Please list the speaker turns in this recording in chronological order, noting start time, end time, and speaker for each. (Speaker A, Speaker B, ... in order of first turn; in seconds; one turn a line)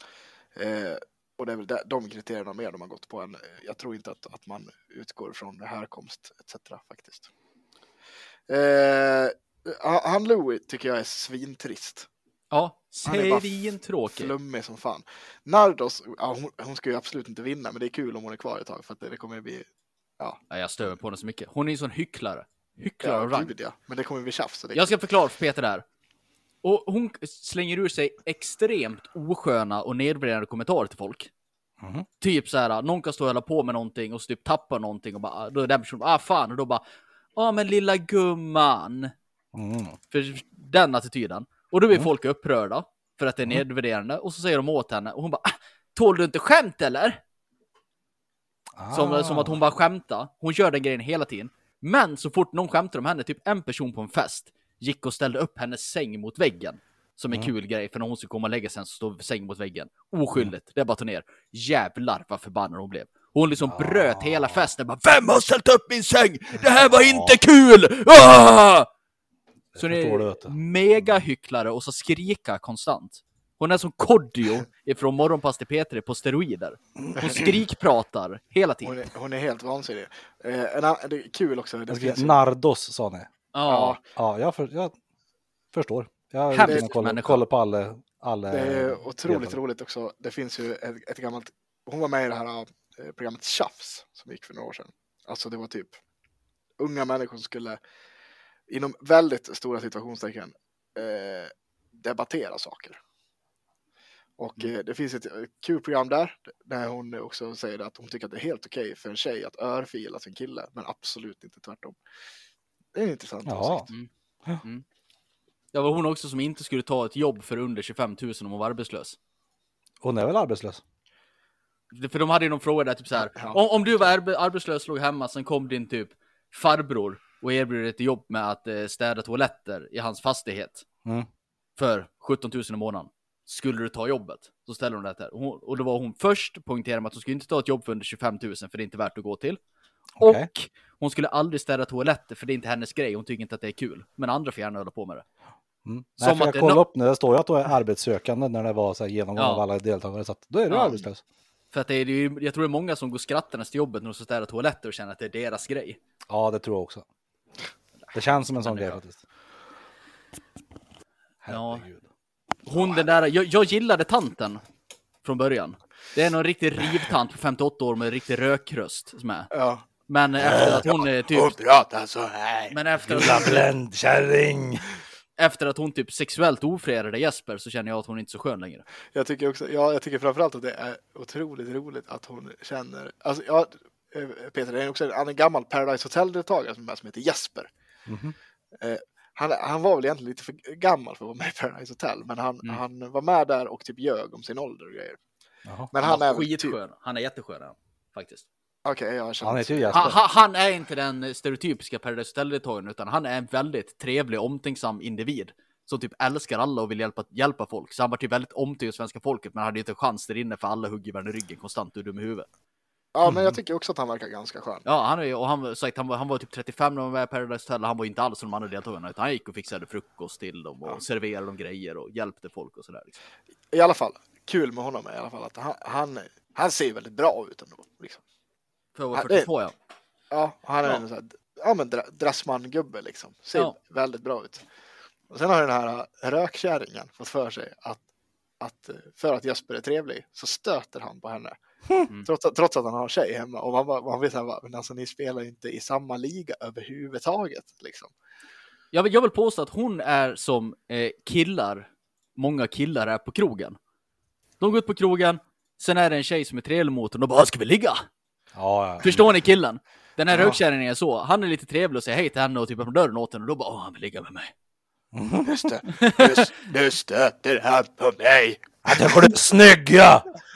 Speaker A: 0.6-7.3
Speaker A: 8.5-12.1
Speaker B: 12.5-14.3
Speaker A: 13.1-19.7
Speaker B: 20.5-23.5
Speaker A: 23.0-24.9
Speaker B: 24.7-25.8
Speaker B: 26.6-31.3
Speaker C: 31.8-32.1
Speaker B: 32.2-36.8
Speaker B: 37.4-39.1
Speaker C: 39.5-40.0
Speaker B: 40.1-47.2
Speaker C: 48.8-49.6
Speaker B: 48.9-68.9
Speaker C: 63.6-64.7
Speaker C: 66.8-67.4
Speaker C: 69.7-71.2
Speaker B: 69.8-79.0
Speaker A: 77.2-77.4
Speaker A: 78.8-82.4
Speaker C: 81.9-83.3
Speaker B: 83.5-84.0
Speaker A: 83.7-84.0
Speaker C: 84.2-84.9
Speaker C: 85.7-89.6
Speaker B: 86.5-87.4
Speaker A: 86.6-86.9
Speaker A: 88.5-96.0
Speaker A: 96.8-97.8
Speaker A: 98.7-103.0
Speaker A: 104.4-112.0
Speaker A: 112.9-113.9
Speaker C: 113.5-113.8
Speaker B: 115.7-119.2
Speaker C: 120.0-120.8
Speaker B: 121.9-130.8
Speaker A: 123.1-123.6
Speaker B: 131.8-139.6
Speaker C: 140.2-140.5
Speaker B: 140.2-145.2
Speaker C: 145.8-151.2
Speaker B: 146.2-146.8
Speaker B: 149.3-149.6
Speaker B: 150.7-151.0
Speaker B: 151.7-156.0
Speaker C: 156.3-157.0
Speaker B: 158.0-159.0
Speaker C: 158.1-159.2
Speaker C: 161.4-162.1
Speaker B: 161.5-161.8
Speaker B: 162.7-164.6
Speaker A: 162.7-163.0
Speaker B: 165.2-169.5
Speaker A: 169.5-169.8
Speaker B: 170.1-171.5
Speaker C: 170.4-170.9
Speaker A: 170.5-173.5
Speaker B: 172.7-173.7
Speaker C: 173.0-174.9
Speaker B: 175.4-178.8
Speaker A: 179.1-187.7
Speaker C: 188.1-188.3
Speaker A: 188.8-195.2
Speaker C: 195.7-195.9
Speaker A: 195.9-196.8
Speaker B: 196.0-198.4
Speaker A: 198.8-200.1
Speaker C: 199.4-200.2
Speaker B: 199.9-212.5
Speaker A: 213.1-214.8
Speaker C: 213.2-213.5
Speaker B: 214.8-223.2
Speaker A: 223.7-228.2
Speaker B: 228.9-229.7
Speaker A: 229.1-229.5
Speaker A: 230.3-234.6
Speaker A: 235.3-238.0
Speaker A: 238.6-241.6
Speaker A: 242.2-248.1
Speaker B: 248.9-253.8
Speaker B: 254.6-258.1
Speaker C: 258.5-259.3
Speaker B: 259.0-264.5
Speaker C: 260.3-260.6
Speaker C: 265.1-265.7
Speaker A: 265.5-269.1
Speaker B: 266.0-266.3
Speaker C: 268.8-270.3